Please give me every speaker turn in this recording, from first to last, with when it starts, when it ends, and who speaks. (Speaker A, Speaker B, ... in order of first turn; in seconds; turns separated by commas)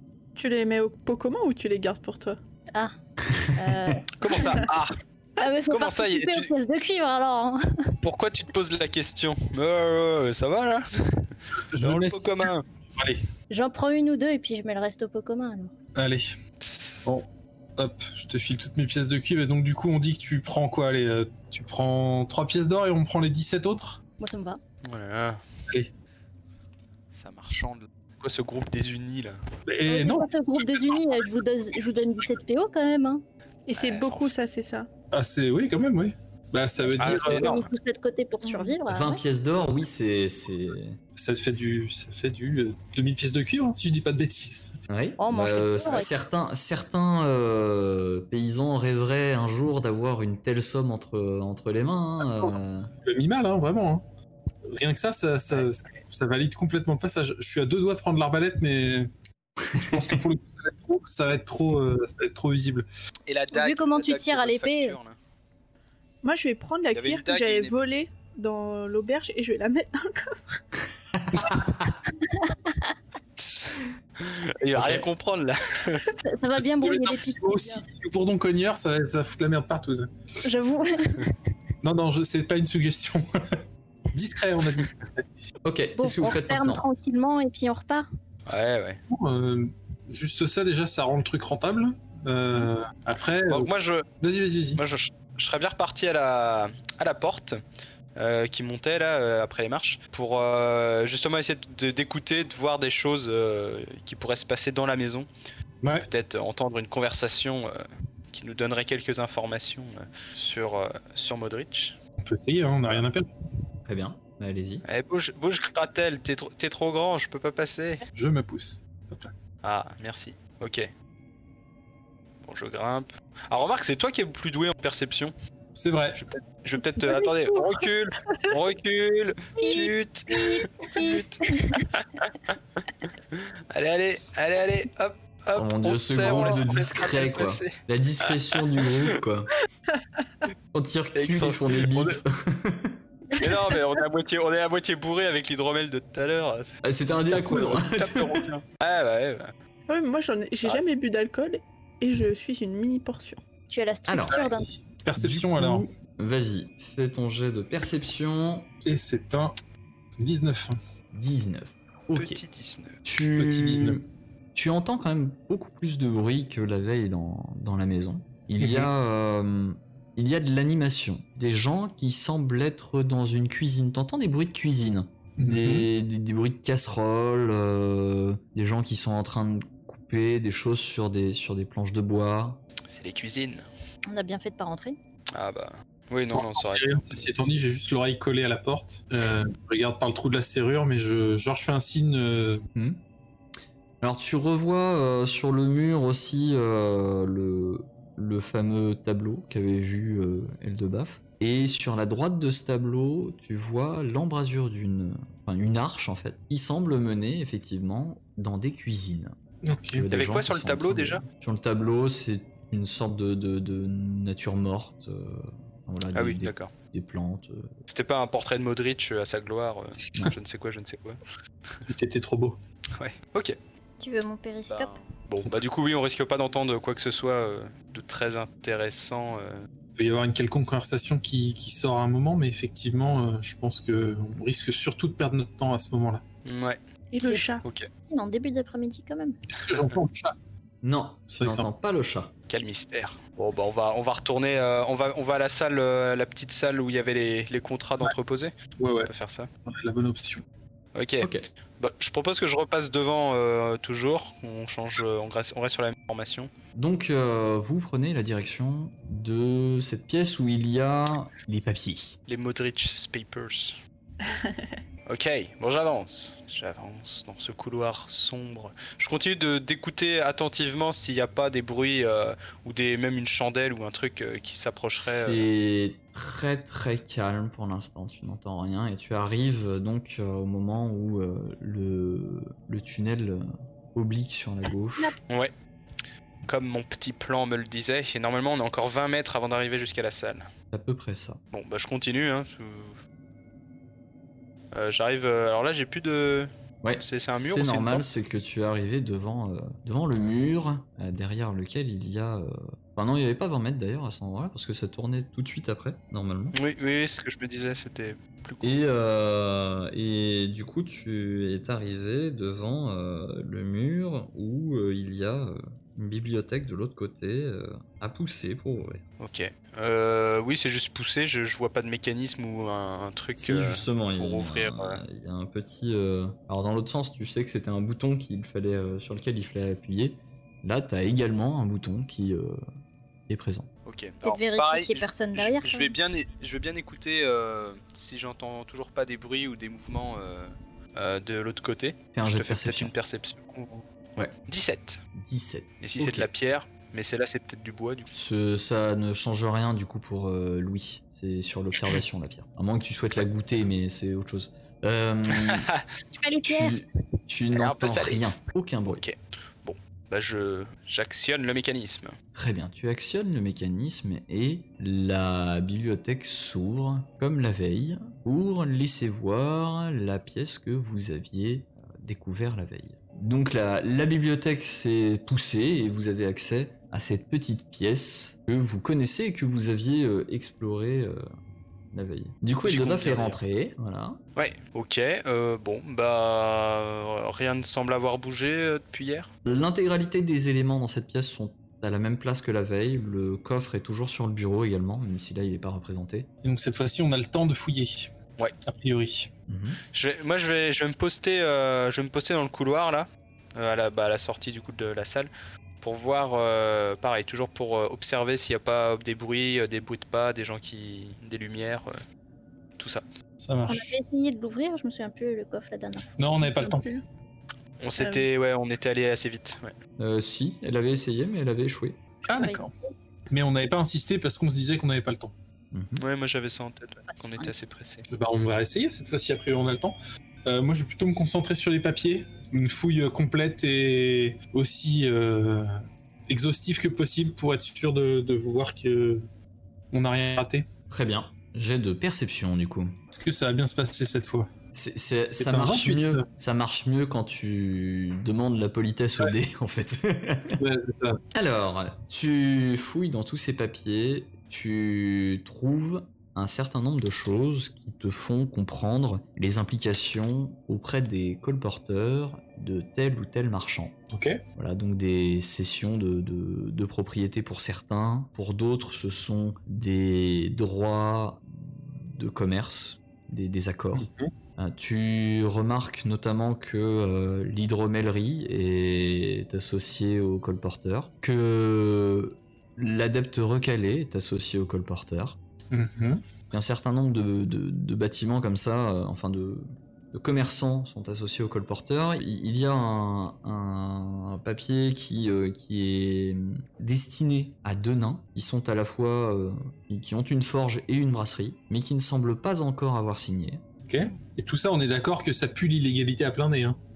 Speaker A: 0.4-2.4, Speaker B: 3.3-4.0, Speaker C: 3.5-4.6, Speaker D: 4.2-5.0, Speaker C: 5.4-7.6, Speaker D: 5.7-6.5, Speaker D: 8.0-12.7, Speaker E: 11.6-13.2, Speaker C: 13.5-15.7, Speaker E: 16.0-16.4, Speaker D: 16.6-17.1, Speaker E: 17.8-24.0, Speaker C: 24.2-24.6, Speaker D: 24.8-25.4, Speaker D: 27.1-29.4, Speaker E: 29.7-31.3, Speaker C: 29.9-33.2, Speaker A: 33.7-34.9, Speaker D: 33.8-34.3, Speaker E: 35.1-37.6, Speaker C: 36.8-39.2, Speaker D: 37.0-37.7, Speaker A: 38.4-38.8, Speaker B: 38.9-41.0, Speaker E: 41.2-44.7, Speaker B: 44.9-52.9, Speaker C: 45.2-46.1, Speaker E: 52.2-54.0, Speaker E: 54.7-59.1, Speaker D: 55.5-56.0, Speaker E: 59.7-62.9, Speaker B: 59.8-60.0, Speaker D: 63.3-65.2, Speaker C: 63.5-65.0, Speaker A: 66.2-70.6, Speaker D: 66.9-67.8, Speaker B: 71.2-71.7, Speaker C: 72.3-72.9, Speaker D: 73.4-76.1, Speaker B: 74.8-75.0, Speaker C: 76.2-77.9, Speaker E: 76.8-80.1, Speaker C: 80.4-81.3, Speaker E: 81.8-83.6, Speaker E: 84.1-85.3, Speaker B: 85.6-86.8, Speaker C: 86.0-88.1, Speaker D: 88.5-89.0, Speaker E: 89.1-93.7, Speaker D: 93.5-94.1, Speaker E: 94.2-94.8, Speaker D: 94.8-97.6, Speaker D: 98.2-105.3, Speaker E: 105.8-106.1, Speaker D: 106.0-112.0, Speaker E: 112.2-113.3, Speaker B: 113.8-114.8, Speaker D: 114.8-118.0, Speaker E: 118.1-119.3, Speaker D: 119.6-120.9, Speaker D: 122.4-125.3, Speaker E: 125.8-126.2, Speaker D: 126.2-132.5, Speaker A: 127.0-128.5, Speaker C: 129.6-131.7, Speaker D: 133.3-139.2, Speaker B: 135.6-139.5, Speaker B: 140.7-143.0, Speaker D: 141.2-142.2, Speaker D: 143.4-146.7, Speaker B: 146.8-148.5, Speaker E: 147.3-147.9, Speaker D: 147.7-149.5, Speaker A: 149.9-153.4, Speaker C: 153.7-154.7, Speaker B: 154.1-154.4, Speaker D: 154.2-154.6, Speaker E: 154.5-155.8, Speaker B: 155.2-158.7, Speaker E: 158.8-159.5, Speaker E: 160.2-160.8, Speaker B: 161.1-162.4, Speaker D: 162.1-162.9, Speaker B: 163.1-182.6, Speaker E: 163.4-164.0, Speaker E: 168.6-168.9, Speaker E: 175.4-175.9, Speaker D: 182.9-183.7, Speaker C: 184.1-185.0, Speaker D: 185.3-187.3, Speaker E: 186.3-192.6, Speaker B: 194.0-209.3, Speaker E: 209.6-210.1, Speaker B: 209.9-217.7, Speaker D: 210.1-211.2, Speaker D: 216.2-216.7, Speaker D: 217.9-221.2, Speaker E: 221.8-222.6, Speaker D: 223.0-223.6, Speaker C: 224.0-224.9, Speaker D: 224.7-229.6, Speaker E: 230.0-236.2, Speaker D: 236.4-236.8, Speaker A: 237.1-237.7, Speaker C: 237.2-237.5, Speaker D: 237.6-237.9, Speaker C: 238.1-239.4, Speaker E: 239.5-240.3, Speaker D: 239.7-240.0, Speaker B: 240.8-242.3, Speaker E: 241.3-241.7, Speaker D: 242.5-248.5, Speaker E: 248.8-249.1, Speaker D: 249.1-249.5, Speaker E: 249.7-250.4, Speaker D: 250.9-256.5, Speaker B: 256.8-262.2, Speaker D: 262.3-263.8, Speaker A: 264.2-264.8, Speaker D: 265.1-275.4, Speaker B: 275.0-285.2, Speaker D: 286.5-290.5, Speaker B: 290.7-291.4, Speaker D: 291.5-293.0, Speaker D: 294.7-298.1, Speaker B: 296.8-306.6, Speaker D: 306.5-308.8, Speaker B: 308.6-319.0, Speaker D: 319.2-325.0, Speaker B: 323.4-332.6, Speaker B: 333.3-333.7, Speaker D: 333.9-345.0, Speaker C: 334.2-335.9, Speaker B: 342.1-342.9, Speaker B: 345.2-346.3, Speaker D: 345.8-348.1, Speaker B: 348.1-355.7, Speaker D: 355.3-355.9, Speaker C: 356.1-356.8, Speaker B: 356.4-359.0, Speaker D: 357.5-358.3, Speaker D: 358.9-362.2, Speaker B: 362.4-381.2, Speaker B: 381.9-384.2, Speaker D: 382.6-383.4, Speaker D: 384.4-389.3, Speaker B: 389.4-396.3, Speaker E: 396.4-398.1, Speaker E: 398.6-399.3, Speaker B: 399.5-399.8, Speaker D: 399.9-405.3, Speaker D: 405.8-412.0, Speaker E: 413.4-414.0, Speaker C: 413.7-416.1, Speaker E: 416.2-416.9, Speaker A: 416.4-417.0, Speaker D: 417.8-419.7, Speaker A: 418.0-418.2, Speaker B: 420.0-422.0, Speaker E: 422.3-422.7, Speaker C: 422.3-422.7, Speaker E: 423.3-425.3, Speaker B: 425.7-426.0, Speaker D: 426.0-428.1, Speaker E: 428.1-429.9, Speaker E: 430.5-439.2, Speaker E: 439.9-440.7, Speaker B: 440.9-442.9, Speaker E: 443.1-444.5, Speaker B: 444.7-450.6, Speaker E: 445.3-446.2, Speaker E: 450.6-451.2, Speaker B: 451.3-463.9, Speaker E: 464.1-464.4, Speaker B: 464.6-485.4, Speaker E: 473.9-474.3, Speaker E: 485.7-486.2, Speaker B: 486.5-503.6, Speaker E: 503.9-506.8